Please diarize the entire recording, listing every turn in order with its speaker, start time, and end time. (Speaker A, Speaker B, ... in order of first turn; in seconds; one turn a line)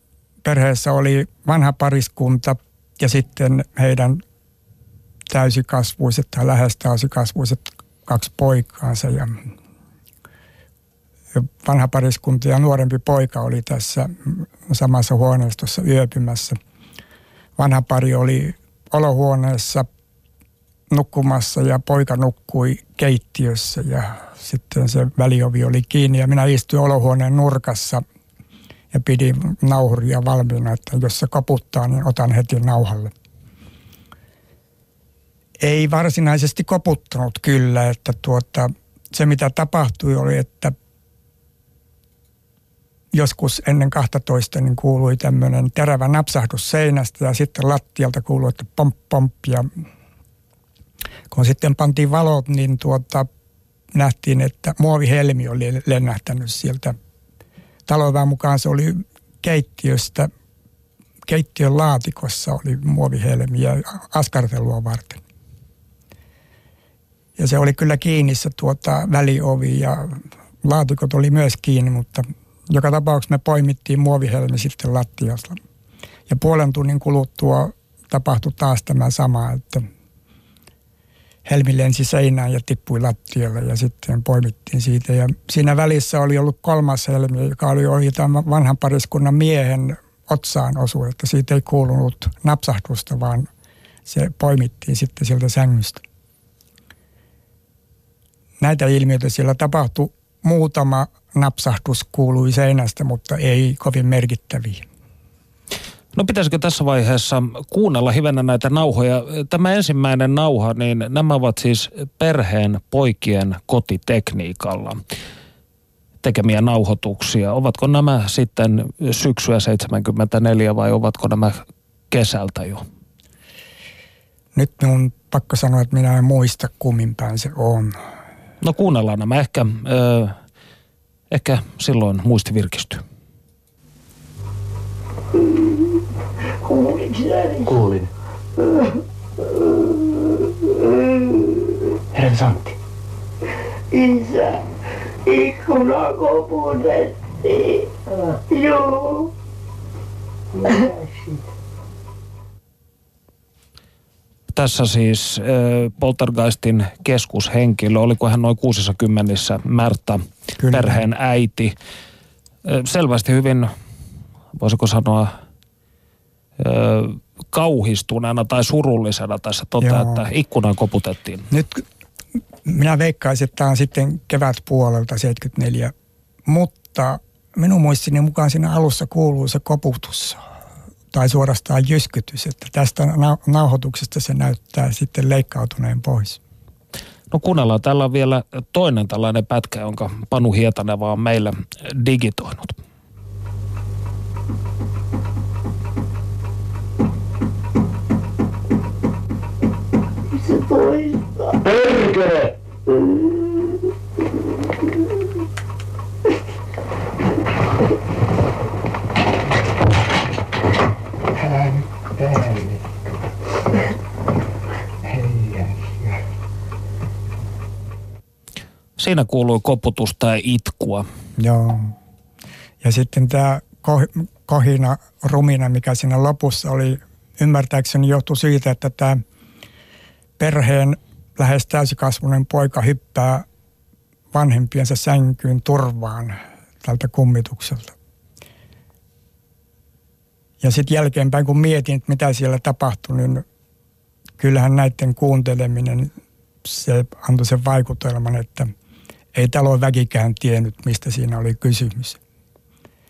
Speaker A: 0.4-4.2
Speaker A: 5.3-9.5
Speaker A: 11.3-16.6
Speaker A: 17.6-19.9
Speaker A: 20.9-28.0
Speaker A: 28.9-33.1
Speaker A: 35.6-40.7
Speaker A: 43.1-49.7
Speaker A: 51.3-53.3
Speaker A: 53.9-57.0
Speaker A: 57.9-60.3
Speaker A: 61.2-65.2
Speaker A: 67.4-75.6
Speaker A: 76.3-79.9
Speaker A: 81.5-93.5
Speaker A: 94.0-96.0
Speaker A: 98.6-104.8
Speaker B: 106.1-115.0
Speaker B: 116.2-122.8
Speaker A: 124.5-128.0
Speaker B: 128.6-130.3
Speaker B: 131.3-133.0
Speaker C: 136.6-137.8
Speaker C: 143.9-144.7
Speaker C: 145.2-149.3
Speaker C: 150.6-151.1
Speaker B: 154.5-161.7
Speaker A: 160.6-161.0
Speaker B: 162.6-163.7
Speaker B: 164.5-165.3
Speaker B: 166.6-171.5
Speaker A: 169.8-170.2
Speaker A: 171.5-171.8
Speaker A: 172.6-175.9
Speaker A: 176.4-180.4
Speaker A: 181.1-186.4
Speaker B: 187.3-192.8
Speaker C: 200.4-201.4
Speaker A: 215.1-215.7
Speaker B: 219.0-221.1
Speaker A: 221.4-221.9
Speaker A: 222.8-229.2
Speaker A: 230.4-233.4
Speaker A: 234.3-237.9
Speaker A: 240.6-243.4
Speaker A: 244.4-246.1
Speaker A: 246.6-248.7
Speaker A: 249.3-252.2